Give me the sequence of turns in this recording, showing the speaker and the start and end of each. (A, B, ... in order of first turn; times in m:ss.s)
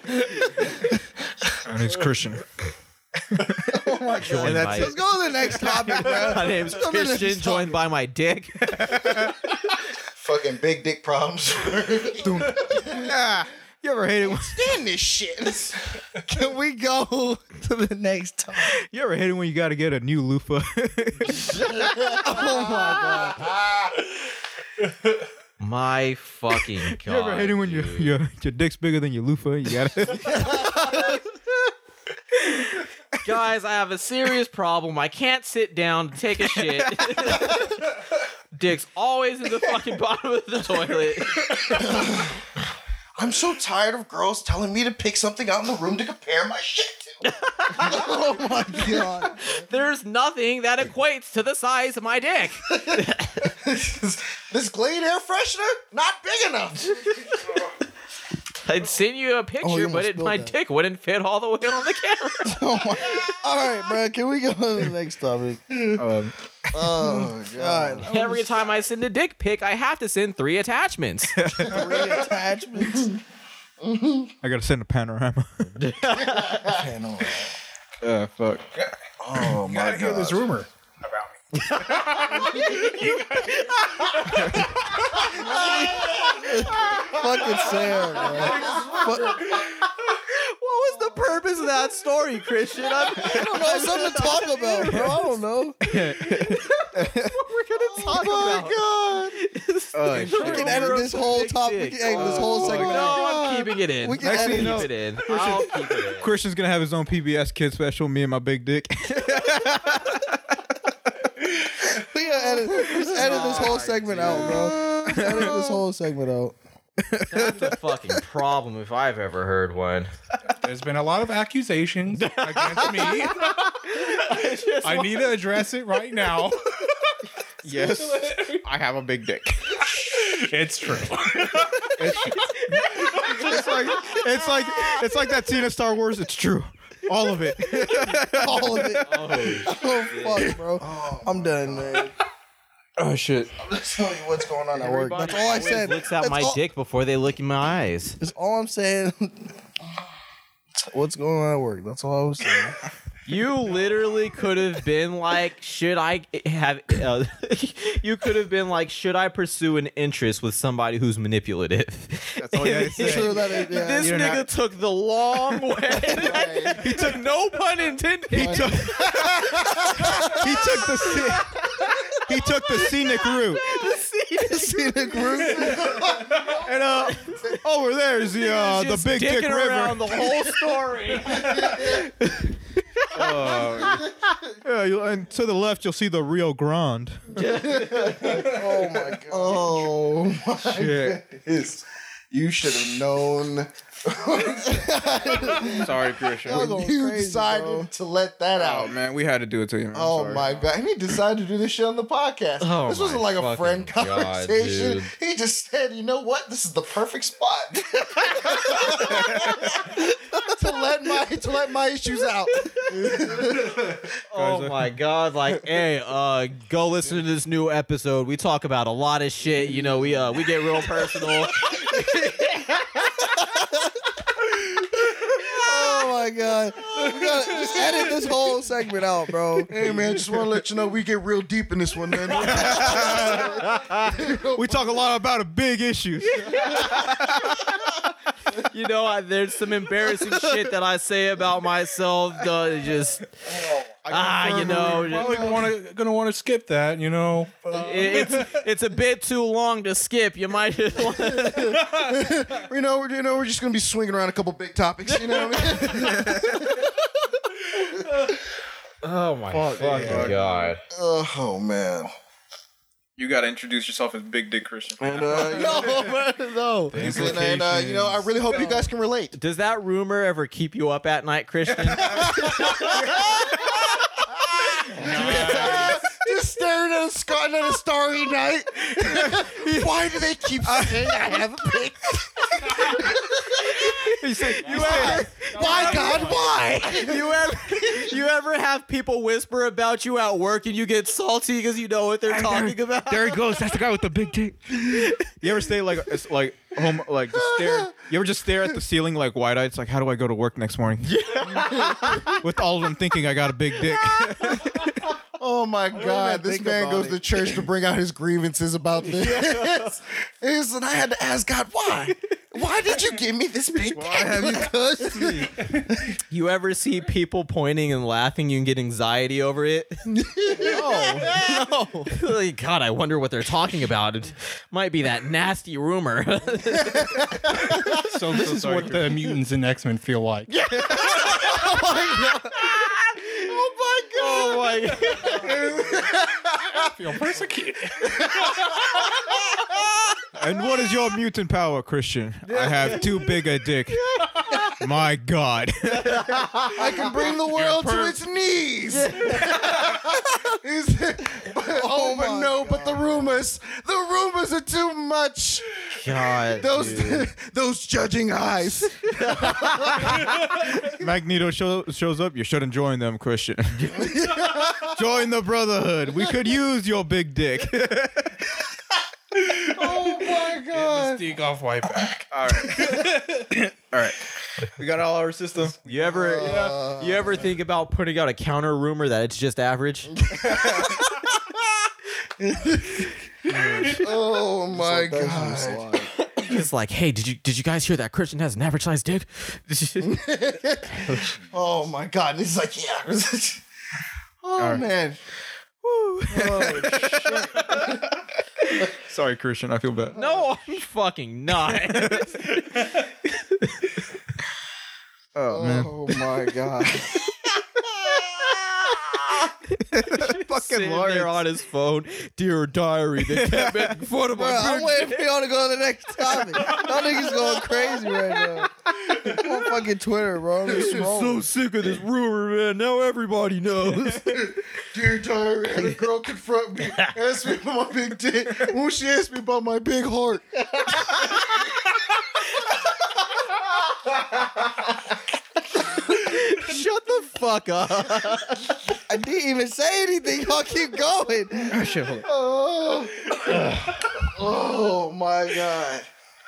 0:01.6-0:02.5 A
0:03.3-0:03.8 A
0:03.7-0:07.8 B
0:04.2-0:04.9 C
0:04.3-0:05.0 A
0:05.6-0:05.9 A
0:05.6-0:08.8 C
0:08.6-0:09.4 A
0:10.1-0:13.1 D
0:12.2-0:14.8 A
0:14.2-0:15.8 D
0:16.2-0:18.8 B
0:18.6-0:21.5 A
0:21.8-0:23.9 D
0:22.0-0:23.5 B
0:25.6-0:28.1 C
0:26.9-0:30.7 A
0:33.2-0:37.8 C
0:36.6-0:37.5 A
0:38.5-0:41.8 C
0:41.7-0:42.4 D
0:43.2-0:48.2 D
0:47.4-0:48.0 C
0:47.8-0:49.4 B
0:48.7-0:49.1 D
0:49.4-0:53.5 C
0:52.7-0:57.3 D
0:58.6-1:02.6 C
0:59.6-1:00.5 B
1:02.4-1:06.0 B
1:05.9-1:07.1 A
1:06.7-1:08.3 D
1:07.0-1:08.4 B
1:08.0-1:11.4 C
1:11.4-1:12.0 A
1:11.6-1:13.1 B
1:11.7-1:12.2 D
1:13.8-1:14.3 D
1:14.4-1:15.8 A
1:15.8-1:16.7 C
1:16.2-1:17.5 D
1:18.0-1:18.9 A
1:19.2-1:20.5 D
1:19.4-1:24.4 E
1:21.6-1:24.6 C
1:25.3-1:26.4 D
1:25.3-1:29.5 B
1:27.7-1:29.6 D
1:30.0-1:35.2 C
1:33.1-1:35.8 B
1:34.9-1:35.1 A
1:35.8-1:37.4 A
1:35.9-1:46.3 C
1:37.9-1:39.3 D
1:38.1-1:39.0 B
1:39.9-1:41.0 A
1:40.2-1:44.9 B
1:42.0-1:43.2 A
1:44.2-1:50.4 A
1:51.8-1:56.6 B
1:52.8-1:54.8 C
1:54.3-1:55.5 A
1:57.1-1:57.6 A
1:57.2-2:00.1 C
2:00.6-2:03.6 E
2:02.1-2:05.4 C
2:04.3-2:06.8 E
2:07.6-2:10.4 A
2:07.6-2:08.6 E
2:10.2-2:12.4 E
2:12.0-2:19.0 A
2:12.3-2:14.2 C
2:13.0-2:13.4 E
2:14.7-2:15.0 C
2:18.3-2:22.1 B
2:19.0-2:20.5 C
2:20.8-2:22.1 D
2:23.0-2:23.5 A
2:23.6-2:24.7 D
2:24.1-2:26.6 B
2:24.8-2:28.2 C
2:28.2-2:29.5 B
2:30.7-2:32.8 B
2:33.2-2:49.3 C
2:42.4-2:44.4 A
2:42.9-2:44.4 B
2:46.1-2:47.0 D
2:46.1-2:46.4 B
2:46.8-2:47.2 A
2:48.3-2:51.6 A
2:48.4-2:50.5 D
2:49.9-2:50.3 B
2:50.2-2:55.2 C
2:52.2-2:53.7 A
2:54.4-2:56.1 B
2:55.1-2:57.5 D
2:56.4-3:00.6 A
2:58.3-3:02.1 C
3:01.7-3:02.0 D
3:03.1-3:07.4 A
3:03.1-3:03.9 C
3:07.3-3:08.4 C
3:07.4-3:15.9 D
3:08.2-3:10.0 B
3:08.3-3:08.8 E
3:10.7-3:11.2 A
3:14.6-3:15.9 B
3:15.7-3:16.7 A
3:16.4-3:18.9 D
3:16.4-3:17.9 B
3:18.6-3:20.7 A
3:19.9-3:34.0 D
3:22.6-3:25.1 C
3:29.0-3:29.8 A
3:34.3-3:42.7 C
3:34.3-3:34.9 A
3:45.4-3:49.7 B
3:49.7-3:54.9 D
3:52.3-3:53.8 A
3:52.5-3:54.0 C
3:54.5-3:57.7 A
3:56.2-3:57.8 C
3:58.4-4:03.3 C
4:03.5-4:03.9 D
4:04.1-4:05.1 A
4:04.1-4:05.5 C
4:04.6-4:08.6 E
4:04.6-4:05.7 D
4:07.7-4:11.8 C
4:11.2-4:17.0 D
4:15.9-4:16.6 A
4:17.8-4:18.3 D
4:19.0-4:20.8 C
4:19.5-4:20.3 B
4:19.6-4:20.4 D
4:19.7-4:20.7 A
4:19.8-4:20.2 E
4:20.9-4:22.1 D
4:23.2-4:26.0 A
4:25.0-4:26.2 D
4:25.3-4:27.0 B
4:26.9-4:29.4 D
4:26.9-4:28.4 E
4:27.0-4:27.5 A
4:28.6-4:28.8 B
4:29.3-4:33.0 C
4:31.7-4:34.0 A
4:32.2-4:33.3 D
4:34.8-4:47.3 D
4:35.0-4:36.0 C
4:35.0-4:36.0 E
4:35.0-4:36.0 A
4:39.0-4:41.4 A
4:44.0-4:46.2 A
4:44.6-4:53.4 C
4:44.9-4:47.1 B
4:45.4-4:46.5 E
4:52.3-5:01.2 A
4:57.3-4:57.9 D
5:01.0-5:02.4 C
5:01.5-5:02.3 D
5:02.2-5:05.0 A
5:04.3-5:04.7 C
5:05.4-5:16.2 D
5:05.9-5:07.5 B
5:09.0-5:09.9 C
5:13.7-5:15.6 A
5:16.3-5:27.1 C
5:20.1-5:20.8 D
5:20.6-5:21.4 B
5:27.8-5:30.5 E
5:28.5-5:28.9 A
5:28.6-5:29.0 C
5:30.5-5:33.6 C
5:31.3-5:32.2 D
5:34.1-5:35.6 C
5:35.3-5:35.7 E
5:35.3-5:36.3 D
5:36.8-5:38.6 E
5:40.3-5:44.0 A
5:42.5-5:43.0 C
5:44.8-5:46.6 A
5:46.7-6:00.2 D
5:47.4-5:48.2 E
5:48.9-5:49.6 C
5:51.7-5:53.4 B
5:55.9-5:57.3 C
5:59.2-6:00.2 C
6:00.9-6:08.4 A
6:03.9-6:05.0 D
6:09.6-6:11.4 D
6:10.6-6:13.4 E
6:12.3-6:15.8 A
6:15.8-6:20.7 C
6:15.9-6:17.5 D
6:16.4-6:16.8 E
6:20.2-6:21.1 D
6:20.6-6:20.9 A
6:22.4-6:23.1 D
6:23.5-6:24.1 C
6:23.8-6:26.0 D
6:24.7-6:26.1 B
6:26.4-6:30.2 C
6:30.0-6:33.6 D
6:31.0-6:31.4 C
6:34.4-6:35.2 D
6:34.6-6:34.9 A
6:35.9-6:38.0 A
6:36.3-6:38.1 D
6:38.9-6:40.1 A
6:40.1-6:43.7 C
6:40.2-6:40.4 D
6:41.9-6:42.5 A
6:45.3-6:46.2 A
6:45.5-6:47.4 D
6:49.4-6:55.3 C
6:49.9-6:51.4 A
6:53.2-6:54.0 A
6:54.3-7:01.4 B
6:56.3-6:58.5 C
7:00.7-7:04.5 C
7:00.7-7:01.0 D
7:04.3-7:11.5 D
7:15.9-7:18.8 C
7:19.1-7:21.8 B
7:21.7-7:22.2 C
7:21.9-7:22.2 A
7:22.2-7:26.1 D